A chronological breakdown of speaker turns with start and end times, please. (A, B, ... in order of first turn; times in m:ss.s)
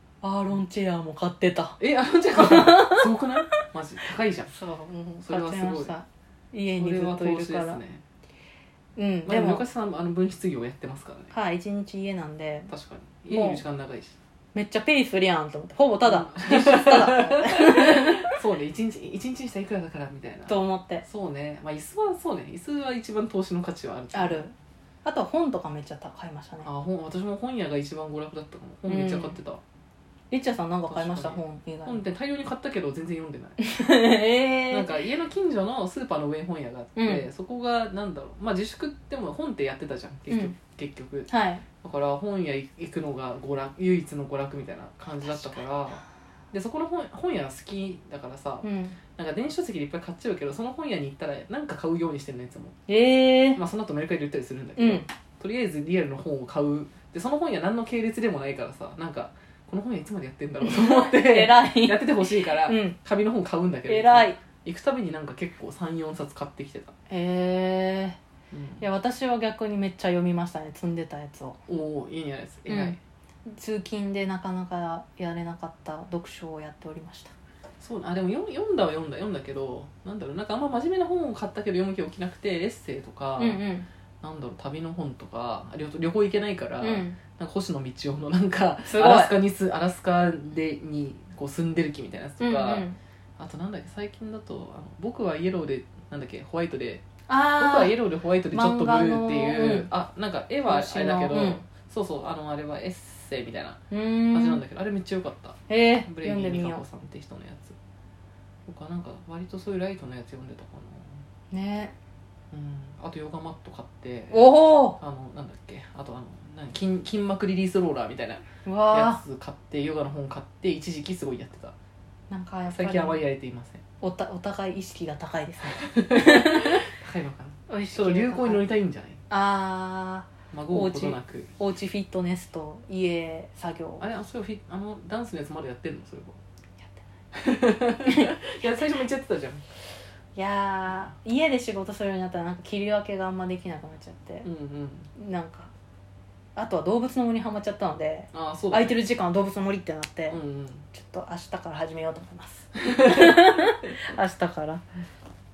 0:00.2-0:01.8 A
0:01.8-0:04.5 B
0:02.3-0:03.1 A
0:04.5-0:07.8 A
0:05.2-0:05.9 B
0:06.8-0:08.0 B
0:09.0-0:09.6 A
0:09.2-0:11.3 B
0:11.3-0:12.7 A
0:12.7-0:14.2 B
0:13.3-0:13.6 A
0:14.5-0:18.4 A
0:16.0-0:24.5 B
0:20.5-0:21.0 A
0:24.1-0:24.5 A
0:25.0-0:26.7 A
0:26.6-0:29.6 B
0:28.8-0:29.4 A
0:30.3-0:32.0 A
0:30.9-0:33.6 B
0:33.6-0:35.0 A
0:34.7-0:41.3 B
0:37.0-0:37.3 A
0:41.3-0:41.6 A
0:41.8-0:48.6 B
0:48.6-0:49.0 A
0:49.2-0:52.7 B
0:52.9-0:53.6 A
0:53.5-1:06.9 B
0:54.8-0:55.0 A
1:00.6-1:03.0 A
1:03.9-1:04.4 A
1:07.1-1:08.2 A
1:08.5-1:08.8 B
1:08.8-1:11.6 A
1:11.7-1:13.0 B
1:12.7-1:17.3 A
1:17.8-1:23.6 B
1:23.4-1:23.9 A
1:24.2-1:47.8 B
1:26.8-1:27.2 A
1:28.8-1:29.4 A
1:32.4-1:33.0 A
1:37.3-1:38.0 A
1:38.5-1:39.9 A
1:40.6-1:41.6 A
1:43.9-1:44.6 A
1:45.7-1:46.8 A
1:48.6-1:51.2 B
1:51.5-1:51.9 A
1:52.5-2:01.7 B
1:54.3-1:55.0 A
1:58.6-1:59.2 A
2:02.3-2:03.2 A
2:02.7-2:03.8 B
2:04.0-2:06.9 A
2:05.6-2:09.2 B
2:07.7-2:08.6 A
2:09.3-2:14.0 A
2:10.5-2:11.5 B
2:14.0-2:16.4 B
2:17.3-2:19.6 B
2:18.0-2:18.4 A
2:20.3-2:24.5 A
2:24.4-2:25.1 B
2:25.1-2:25.7 A
2:26.6-2:30.4 A
2:28.3-2:28.9 B
2:30.3-2:30.8 B
2:30.9-2:34.8 A
2:32.9-2:33.6 B